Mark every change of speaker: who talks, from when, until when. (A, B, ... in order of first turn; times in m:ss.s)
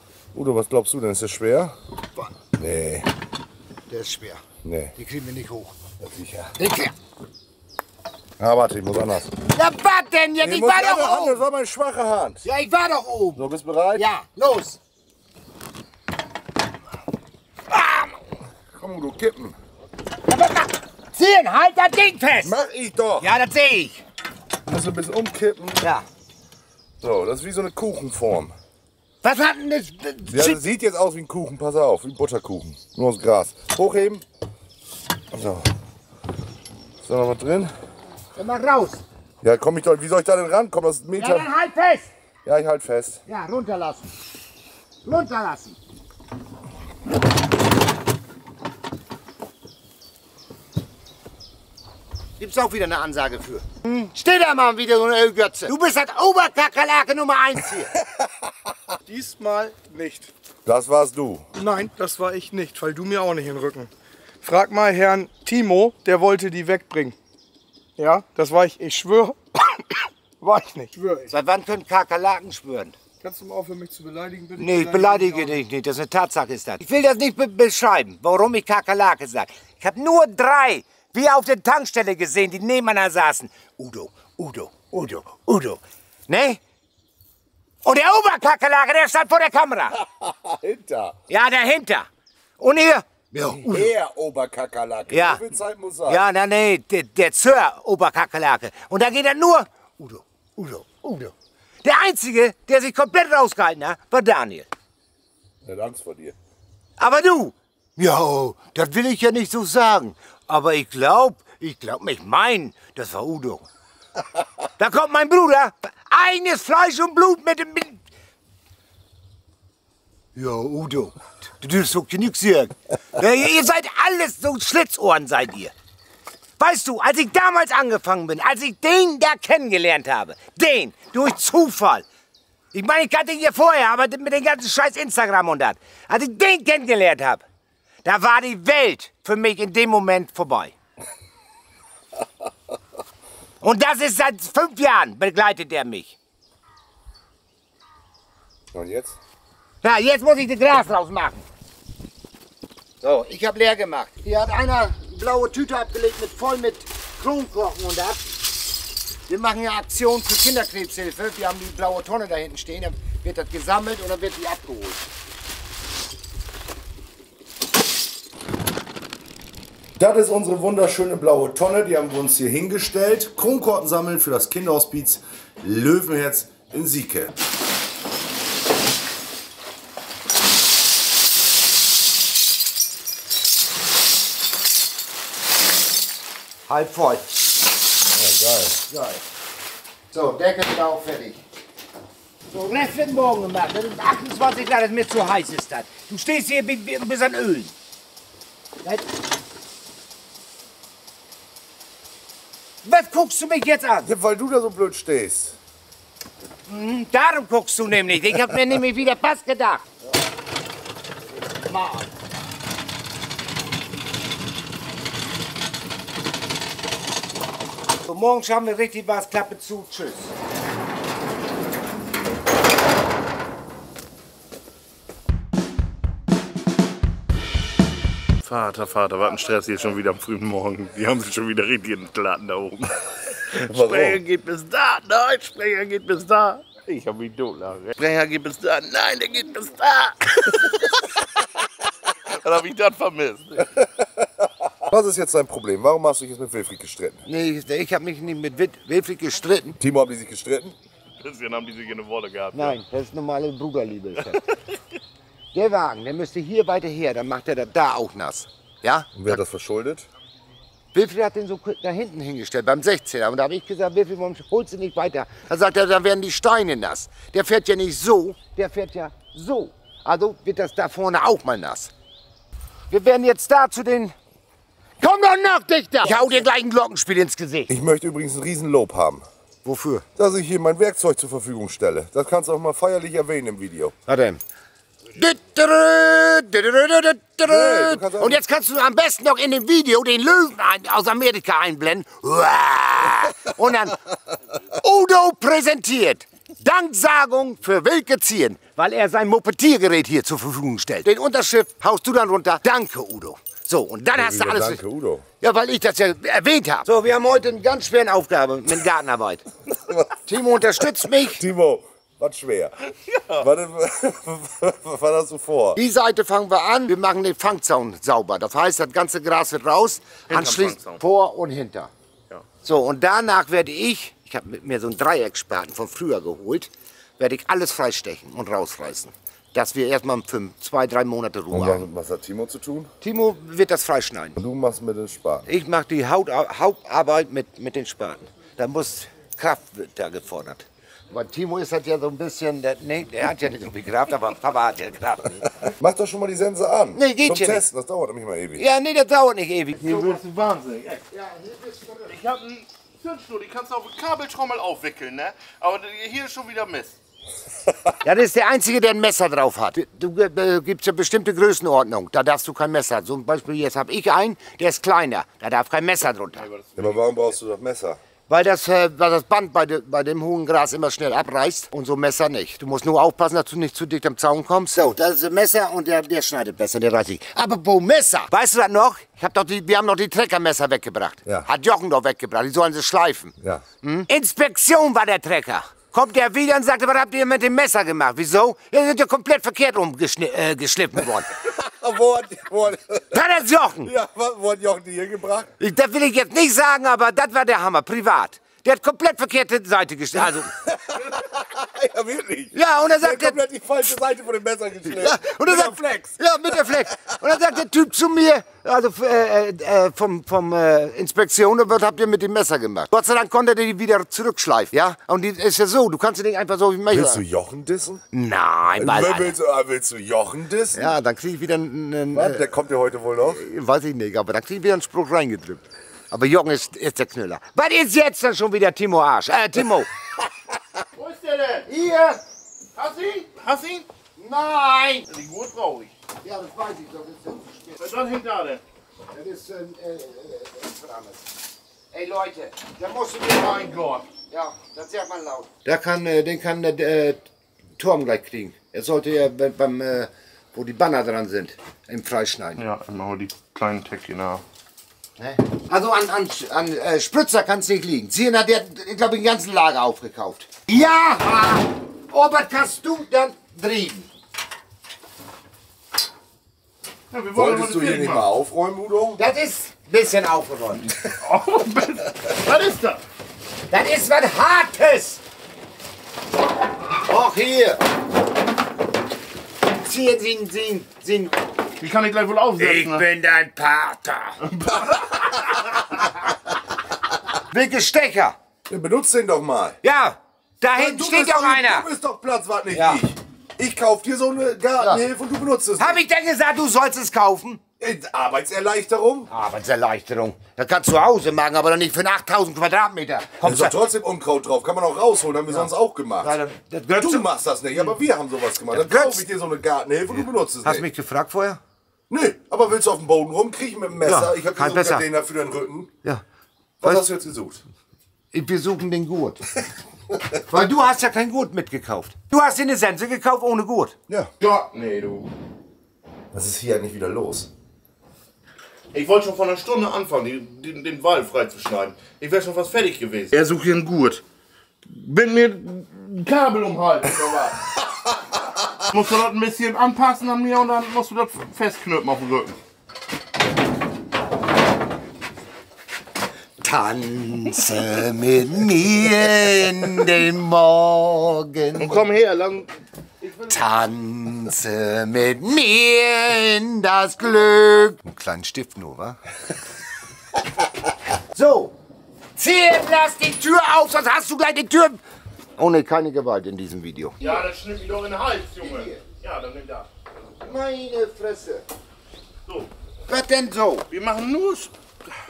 0:00.3-0:01.7 A
0:02.6-0:03.1 A
0:03.9-0:04.4 B
0:04.6-0:04.9 A
0:05.0-0:05.7 B
0:06.0-0:06.6 A
0:06.6-0:06.9 B
0:08.4-0:09.4 A
0:09.5-0:11.4 B
0:10.4-0:12.4 A
0:12.4-0:13.4 B
0:13.4-0:14.0 A
0:14.0-0:14.8 B
0:17.7-0:18.1 B
0:18.7-0:19.6 A
0:20.2-0:22.6 B
0:22.4-0:23.3 A
0:23.2-0:24.0 B
0:24.6-0:25.9 A
0:25.8-0:26.1 B
0:27.0-0:28.5 A
0:29.2-0:30.6 B
0:30.3-0:34.2 A
0:35.3-0:35.7 A
0:37.0-0:37.7 A
0:38.4-0:39.0 B
0:39.4-0:41.5 A
0:41.2-0:42.1 B
0:42.4-0:43.2 A
0:43.3-0:44.2 B
0:45.0-0:45.8 B
0:52.4-0:57.9 B
0:59.1-1:00.3 C
1:00.6-1:01.4 A
1:01.6-1:03.9 C
1:04.4-1:07.1 C
1:08.0-1:09.8 C
1:10.4-1:11.3 C
1:11.3-1:13.0 B
1:13.2-1:15.6 C
1:14.6-1:26.6 B
1:27.8-1:30.0 B
1:30.0-1:31.2 A
1:31.3-1:32.1 B
1:32.6-1:33.9 B
1:33.6-1:36.2 A
1:35.1-1:35.4 B
1:36.1-1:44.7 B
1:45.6-1:46.4 A
1:47.0-1:53.6 B
1:54.8-1:58.0 B
2:00.4-2:05.7 B
2:06.6-2:12.0 B
2:12.7-2:17.4 B
2:18.0-2:20.7 B
2:23.6-2:26.2 B
2:28.7-2:29.2 A
2:29.8-2:31.4 B
2:33.0-2:38.2 B
2:39.3-2:45.0 B
2:50.0-2:57.3 A
3:06.7-3:07.4 B
3:08.1-3:08.8 A
3:08.9-3:09.2 B
3:10.1-3:11.4 B
3:12.5-3:17.7 B
3:22.8-3:24.1 B
3:24.0-3:25.6 A
3:26.7-3:30.0 B
3:31.5-3:32.1 B
3:38.0-3:40.3 B
3:48.4-4:01.0 D
3:53.7-3:54.2 A
4:02.3-4:03.7 D
4:03.8-4:07.2 A
4:07.2-4:09.8 B
4:09.8-4:10.8 A
4:11.2-4:12.8 D
4:12.5-4:14.4 B
4:15.5-4:19.4 B
4:19.1-4:20.1 A
4:20.9-4:31.9 B
4:32.9-4:34.1 B
4:35.0-4:37.7 B
4:37.7-4:39.2 A
4:39.6-4:40.0 B
4:40.2-4:44.0 A
4:44.1-4:44.4 B
4:45.1-4:54.0 B
4:47.4-4:48.4 A
4:54.7-5:04.8 B
5:04.1-5:05.3 A
5:05.4-5:09.4 B
5:10.3-5:11.4 B
5:11.2-5:12.7 A
5:13.1-5:13.4 D
5:13.4-5:15.8 A
5:15.7-5:21.9 B
5:20.3-5:21.0 D
5:22.6-5:31.8 B
5:31.5-5:32.9 A
5:33.0-5:34.4 B
5:34.4-5:35.5 A
5:35.4-5:45.7 B
5:45.8-5:48.6 A
5:47.0-5:47.6 B
5:48.6-5:50.2 B
5:49.8-5:51.0 D
5:51.1-5:52.2 B
5:52.1-5:57.0 D
5:58.0-6:06.5 B
6:06.4-6:07.2 D
6:06.8-6:08.0 A
6:08.3-6:31.3 B
6:31.4-6:33.2 A
6:33.1-6:33.9 B
6:33.8-6:35.5 A
6:35.6-6:40.5 B
6:40.7-6:46.0 A
6:42.5-6:43.4 B
6:44.9-6:57.2 B
6:56.9-6:58.0 A
6:58.1-6:59.3 B
6:58.7-7:00.9 A
7:00.7-7:02.5 B
7:02.1-7:03.4 A
7:03.2-7:09.9 B
7:11.0-7:11.7 D
7:11.7-7:12.2 B
7:12.7-7:13.9 D
7:14.2-7:15.1 B
7:15.1-7:15.9 D
7:16.2-7:17.8 B
7:17.8-7:18.6 D
7:19.1-7:21.3 B
7:21.9-7:27.2 B
7:23.3-7:24.1 D
7:27.8-7:32.6 B
7:32.6-7:34.4 D
7:35.2-7:44.1 B
7:47.1-7:48.3 D
7:47.3-7:49.2 A
7:49.2-7:50.9 B
7:51.2-7:53.0 D
7:53.7-7:55.2 B
7:57.0-7:57.8 B
7:59.7-8:01.5 B
8:01.8-8:03.0 D
8:02.6-8:04.4 B
8:04.5-8:05.4 D
8:07.5-8:08.4 B
8:08.7-8:09.8 A
8:09.8-8:11.9 B
8:10.7-8:16.0 A
8:12.7-8:13.0 B
8:14.8-8:15.0 B
8:15.8-8:17.6 B
8:17.8-8:19.3 A
8:19.3-8:23.8 B
8:23.4-8:26.3 A
8:26.2-8:27.3 B
8:27.0-8:30.8 A
8:28.7-8:29.2 B
8:30.6-8:31.6 B
8:32.1-8:35.9 A
8:34.0-8:35.0 B
8:36.8-8:37.6 A
8:38.3-8:39.5 B
8:40.5-8:44.0 B
8:44.4-8:45.3 D
8:46.3-8:47.5 A
8:48.9-8:54.2 D
8:54.9-8:57.6 D
8:58.9-9:02.6 D
9:06.6-9:12.0 B
9:11.8-9:12.7 D
9:13.2-9:13.6 D
9:13.5-9:19.2 B
9:21.3-9:21.7 B
9:22.4-9:25.0 B
9:25.6-9:27.5 B
9:27.2-9:29.9 D
9:28.6-9:29.0 B
9:30.4-9:31.6 B
9:33.1-9:33.9 B
9:33.9-9:34.7 D